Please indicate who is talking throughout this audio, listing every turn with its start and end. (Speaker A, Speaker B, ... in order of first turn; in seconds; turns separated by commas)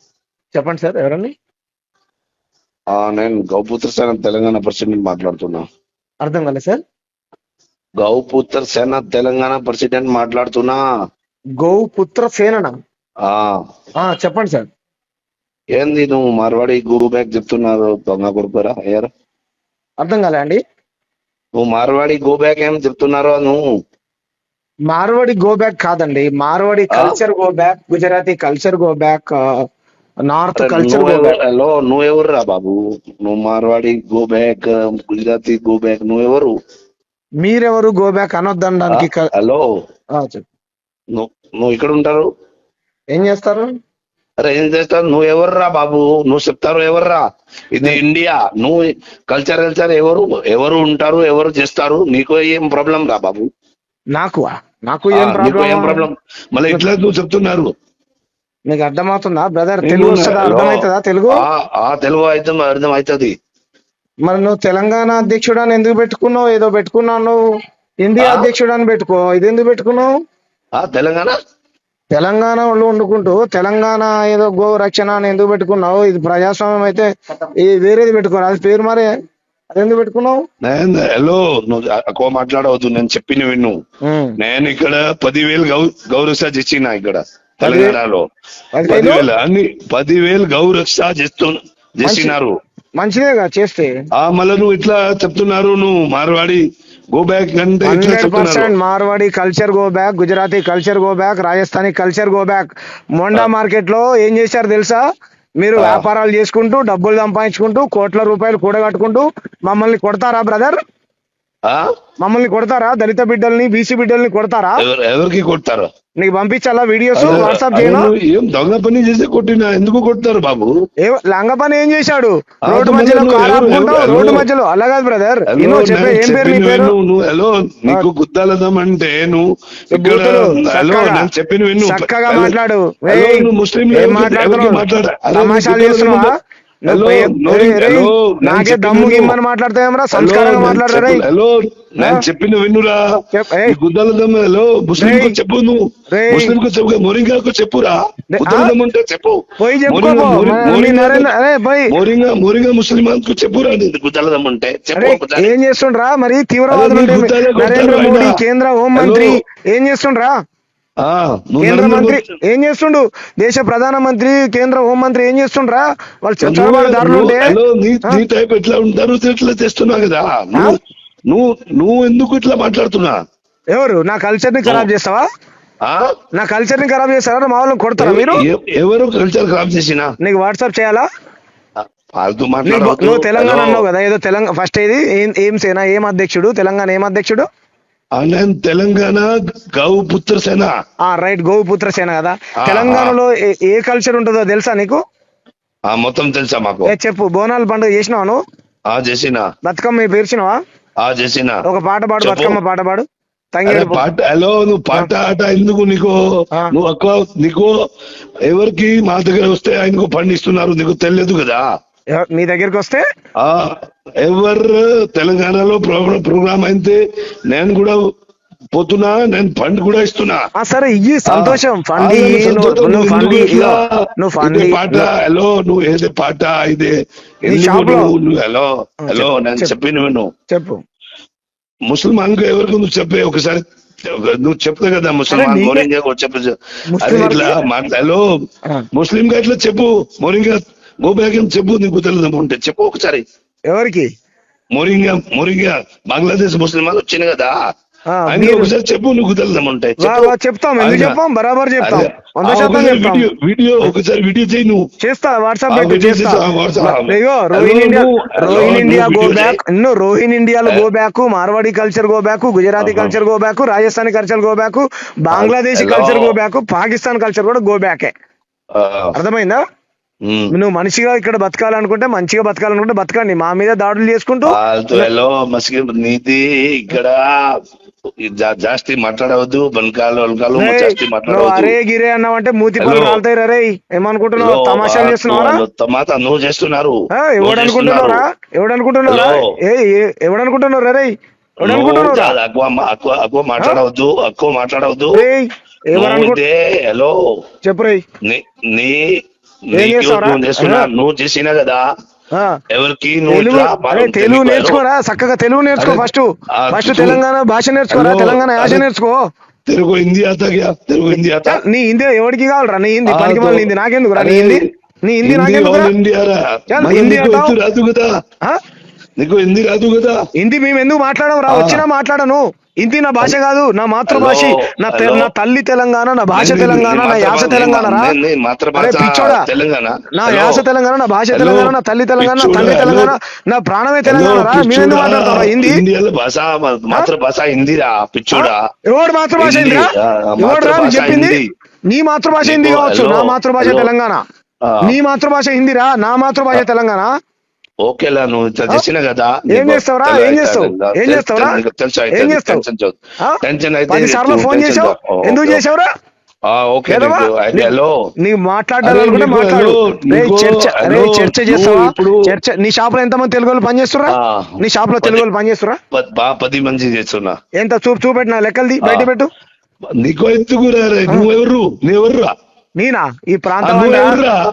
Speaker A: 0.5-1.3, Speaker B: 2.9-5.7, Speaker A: 6.2-6.8, Speaker B: 8.0-10.8, Speaker A: 11.6-12.7, Speaker B: 13.2-13.6, Speaker A: 14.0-14.7, Speaker B: 15.8-19.1, Speaker A: 20.0-20.6, Speaker B: 21.6-23.6, Speaker A: 24.9-29.4, Speaker B: 26.9-27.2, Speaker A: 30.3-31.4, Speaker B: 30.6-36.5, Speaker A: 37.4-39.3, Speaker B: 38.9-39.7, Speaker A: 40.1-40.5, Speaker B: 41.1-42.3, Speaker A: 43.1-43.7, Speaker B: 44.4-53.5, Speaker A: 54.1-56.0, Speaker B: 55.1-57.7, Speaker A: 58.7-61.4, Speaker B: 59.8-60.8, Speaker B: 61.3-63.4, Speaker A: 64.3-67.4, Speaker A: 68.0-70.1, Speaker B: 68.2-68.5, Speaker B: 70.8-71.3, Speaker A: 72.1-77.1, Speaker A: 77.6-79.1, Speaker A: 79.7-80.5, Speaker B: 80.6-83.8, Speaker A: 84.1-84.4, Speaker B: 84.4-88.2, Speaker A: 87.6-88.0, Speaker A: 88.8-89.3, Speaker B: 88.9-92.5, Speaker A: 92.0-92.3, Speaker A: 93.0-93.9, Speaker B: 94.2-96.6, Speaker B: 97.1-98.7, Speaker A: 97.8-105.0, Speaker A: 105.6-110.8, Speaker B: 105.8-106.0, Speaker A: 112.2-114.8, Speaker B: 114.8-115.9, Speaker A: 116.2-118.1, Speaker B: 117.2-120.7, Speaker A: 121.1-127.0, Speaker B: 122.7-124.5, Speaker B: 125.5-132.6, Speaker A: 129.9-134.8, Speaker B: 133.1-136.3, Speaker A: 135.3-136.3, Speaker A: 136.9-141.3, Speaker B: 136.9-139.4, Speaker B: 140.1-143.0, Speaker A: 142.0-142.2, Speaker A: 143.3-143.8, Speaker B: 143.7-151.3, Speaker A: 145.0-145.4, Speaker A: 146.1-146.6, Speaker A: 148.3-148.8, Speaker A: 149.6-151.9, Speaker B: 151.9-155.5, Speaker A: 154.9-160.3, Speaker B: 156.7-158.4, Speaker B: 158.9-159.4, Speaker B: 161.0-162.2, Speaker A: 161.6-167.6, Speaker B: 166.4-170.8, Speaker B: 171.3-173.2, Speaker A: 173.7-175.2, Speaker A: 176.3-178.4, Speaker B: 178.0-180.1, Speaker A: 180.2-181.1, Speaker B: 181.8-183.8, Speaker A: 182.7-187.5, Speaker B: 188.2-190.7, Speaker A: 191.1-195.0, Speaker B: 192.6-193.2, Speaker B: 195.9-196.9, Speaker A: 196.9-198.4, Speaker B: 198.9-199.4, Speaker A: 199.6-200.6, Speaker B: 201.0-201.6, Speaker A: 201.7-204.1, Speaker B: 202.2-202.6, Speaker B: 203.7-206.2, Speaker B: 206.7-207.8, Speaker B: 208.5-211.6, Speaker A: 212.2-213.0, Speaker B: 213.4-217.0, Speaker B: 217.5-218.0, Speaker B: 218.7-220.4, Speaker A: 220.6-225.1, Speaker B: 221.3-226.9, Speaker B: 227.4-230.3, Speaker A: 227.5-228.1, Speaker A: 229.1-229.8, Speaker A: 230.5-230.8, Speaker B: 231.9-238.3, Speaker A: 235.3-235.9, Speaker A: 236.9-237.6, Speaker B: 238.9-243.2, Speaker A: 243.7-244.1, Speaker B: 244.8-247.6, Speaker A: 248.1-248.7, Speaker B: 248.3-251.2, Speaker A: 250.0-253.3, Speaker B: 251.8-254.8, Speaker A: 255.0-268.1, Speaker B: 255.7-259.6, Speaker B: 262.8-263.1, Speaker B: 265.3-266.4, Speaker B: 268.8-269.1, Speaker A: 269.2-269.6, Speaker B: 270.3-270.5, Speaker A: 270.5-275.1, Speaker B: 274.5-277.5, Speaker B: 278.2-281.8, Speaker A: 280.6-285.6, Speaker B: 282.8-283.2, Speaker B: 284.4-288.2, Speaker A: 287.2-292.4, Speaker B: 289.1-289.5, Speaker B: 291.6-295.2, Speaker A: 295.1-296.4, Speaker B: 295.9-297.2, Speaker A: 297.6-298.0, Speaker B: 298.2-299.1, Speaker B: 299.7-301.8, Speaker A: 299.8-300.9, Speaker B: 302.7-304.8, Speaker A: 303.3-309.2, Speaker B: 305.8-307.2, Speaker B: 307.9-308.8, Speaker B: 309.7-311.6, Speaker A: 311.1-315.9, Speaker B: 313.1-314.6, Speaker B: 315.2-318.1, Speaker A: 316.7-317.6, Speaker B: 319.2-320.2, Speaker A: 320.4-328.1, Speaker B: 321.5-321.8, Speaker B: 324.1-325.3, Speaker B: 326.3-330.6, Speaker A: 328.8-329.4, Speaker A: 330.1-335.8, Speaker B: 331.3-333.1, Speaker B: 334.1-338.6, Speaker A: 338.3-344.2, Speaker B: 339.4-341.5, Speaker B: 342.4-343.9, Speaker B: 344.6-344.9, Speaker A: 344.8-347.1, Speaker B: 347.8-355.6, Speaker A: 349.5-351.6, Speaker A: 352.1-352.6, Speaker A: 353.2-355.9, Speaker B: 356.5-357.9, Speaker A: 356.9-365.8, Speaker B: 358.8-362.3, Speaker B: 364.1-365.3, Speaker B: 365.9-367.3, Speaker A: 367.6-369.3, Speaker B: 368.8-369.1, Speaker B: 370.0-372.3, Speaker A: 372.8-374.2, Speaker B: 373.6-374.4